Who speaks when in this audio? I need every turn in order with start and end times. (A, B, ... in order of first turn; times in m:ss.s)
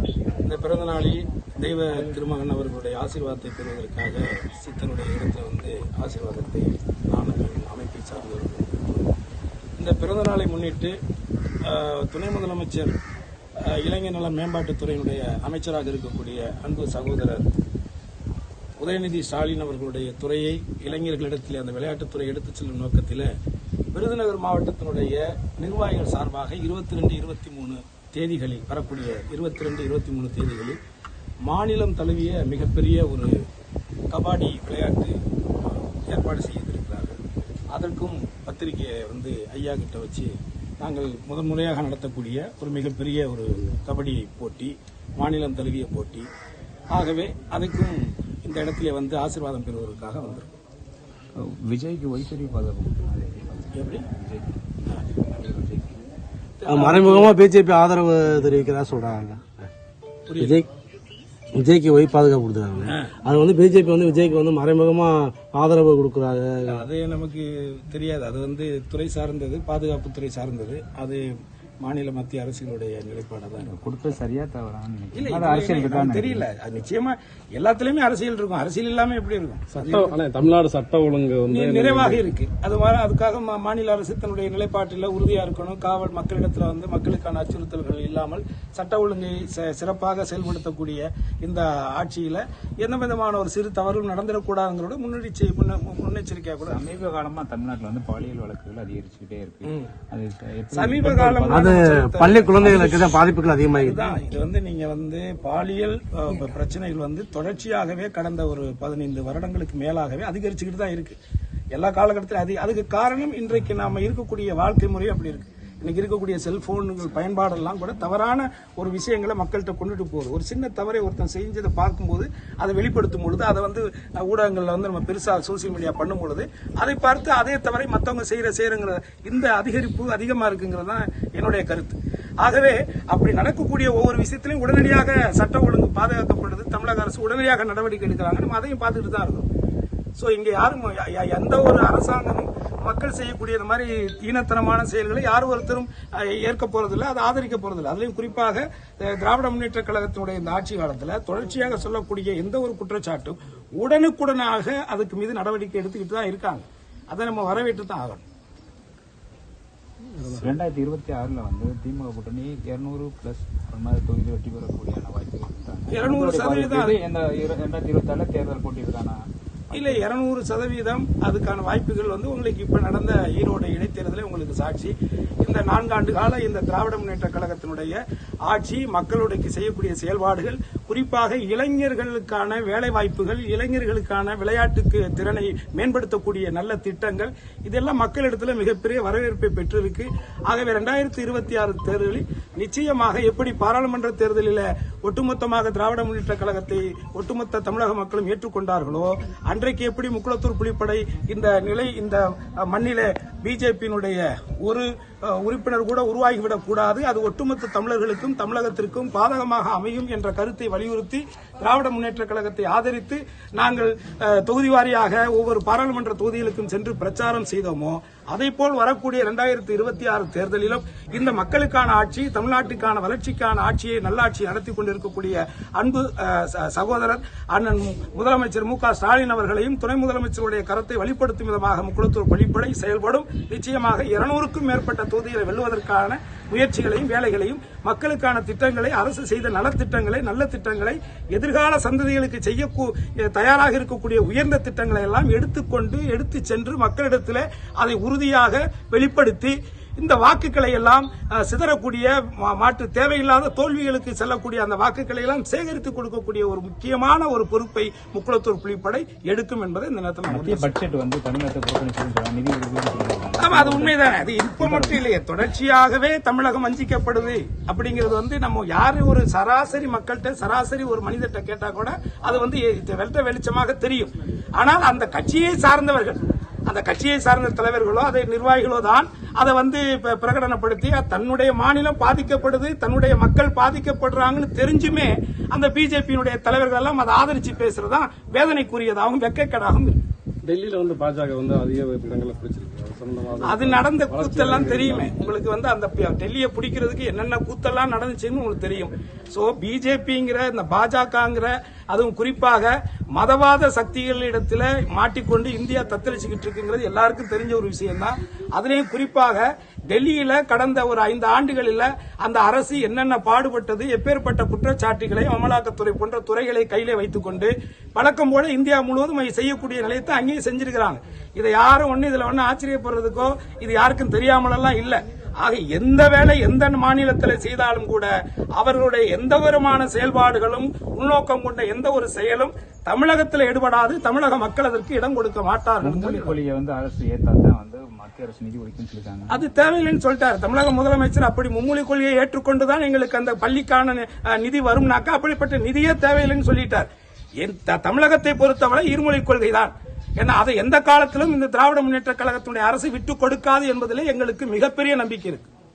0:00.4-0:09.1 A
0:09.8-0:10.9 A
0:11.6-0:13.0 A
0:13.6-0:17.5 A
0:18.8-0:23.3 A
0:23.9-0:30.8 A
0:31.4-0:33.4 A
0:34.1-0:46.3 A
0:46.9-0:50.5 A
0:51.4-0:54.6 B
0:53.7-0:54.0 A
0:54.8-0:55.2 A
0:55.3-0:55.9 B
0:56.6-0:57.4 A
0:56.7-0:59.7 C
1:00.3-1:00.6 A
1:00.4-1:00.7 C
1:01.5-1:06.8 C
1:02.8-1:03.1 A
1:06.6-1:11.2 A
1:11.8-1:13.7 A
1:13.6-1:16.4 B
1:15.1-1:20.2 A
1:19.7-1:22.2 D
1:21.5-1:36.8 A
1:36.6-1:42.0 B
1:39.6-1:39.9 A
1:40.7-1:51.2 A
1:41.5-1:44.0 C
1:51.7-2:19.5 A
2:20.2-2:38.2 A
2:40.1-2:40.4 D
2:40.3-2:50.0 B
2:45.9-2:47.0 A
2:49.7-4:20.7 A
4:20.3-4:24.0 B
4:23.4-4:50.0 A
4:24.6-4:25.0 B
4:50.4-4:55.1 D
4:53.4-5:36.3 A
5:35.8-5:39.4 B
5:39.3-5:46.9 A
5:47.4-5:55.5 A